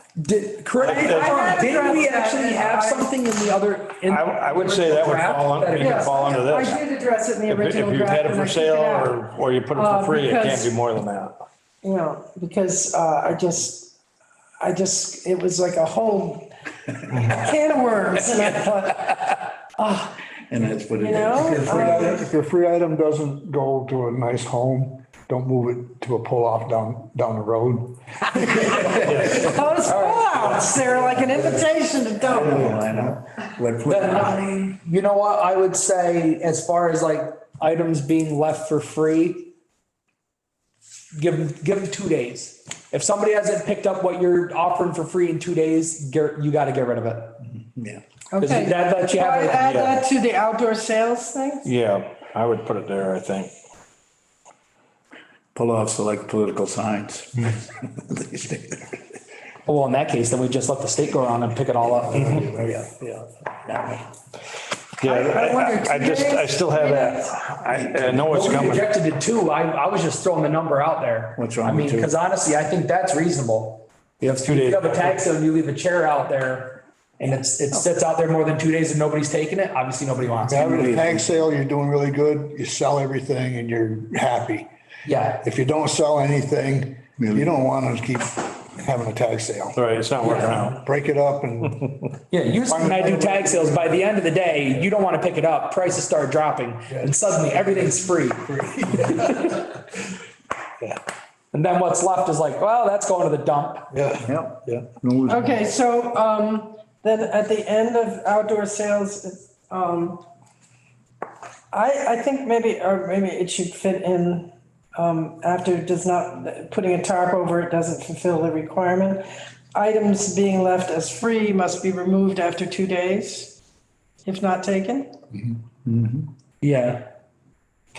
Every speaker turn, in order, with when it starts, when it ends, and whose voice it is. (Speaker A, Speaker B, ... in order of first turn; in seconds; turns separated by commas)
Speaker A: 0.2-6.4, Speaker B: 0.8-1.8, Speaker C: 1.0-3.2, Speaker B: 4.0-6.8, Speaker C: 5.8-9.2, Speaker B: 7.5-11.4, Speaker C: 9.7-10.7, Speaker C: 11.8-14.0, Speaker C: 14.6-16.5, Speaker C: 17.1-20.2, Speaker D: 20.5-22.1, Speaker C: 20.9-22.2, Speaker E: 21.5-28.9, Speaker A: 28.8-30.6, Speaker B: 29.0-29.6, Speaker C: 29.2-32.8, Speaker B: 30.3-31.2, Speaker D: 32.2-34.6, Speaker E: 32.4-33.1, Speaker A: 33.9-39.5, Speaker A: 41.1-47.4, Speaker D: 47.6-48.0, Speaker C: 48.3-51.7, Speaker A: 48.4-49.7, Speaker B: 49.5-50.0, Speaker B: 51.6-53.5, Speaker D: 55.5-59.1, Speaker A: 59.6-62.4, Speaker D: 62.1-64.1, Speaker B: 65.0-68.9, Speaker C: 65.0-67.4, Speaker D: 67.7-68.3, Speaker A: 68.3-80.7, Speaker D: 71.4-72.2, Speaker B: 74.4-75.2, Speaker D: 77.3-77.8, Speaker E: 80.4-84.7, Speaker D: 80.6-81.3, Speaker A: 85.0-85.4, Speaker E: 85.4-89.8, Speaker D: 87.2-87.5, Speaker B: 89.8-90.8, Speaker E: 90.7-91.8, Speaker A: 92.3-99.6, Speaker E: 92.6-94.1, Speaker E: 97.0-97.8, Speaker A: 101.5-103.9, Speaker D: 104.2-105.6, Speaker C: 105.3-110.2, Speaker C: 111.7-123.6, Speaker C: 124.2-125.2, Speaker D: 125.9-126.2, Speaker A: 126.6-127.1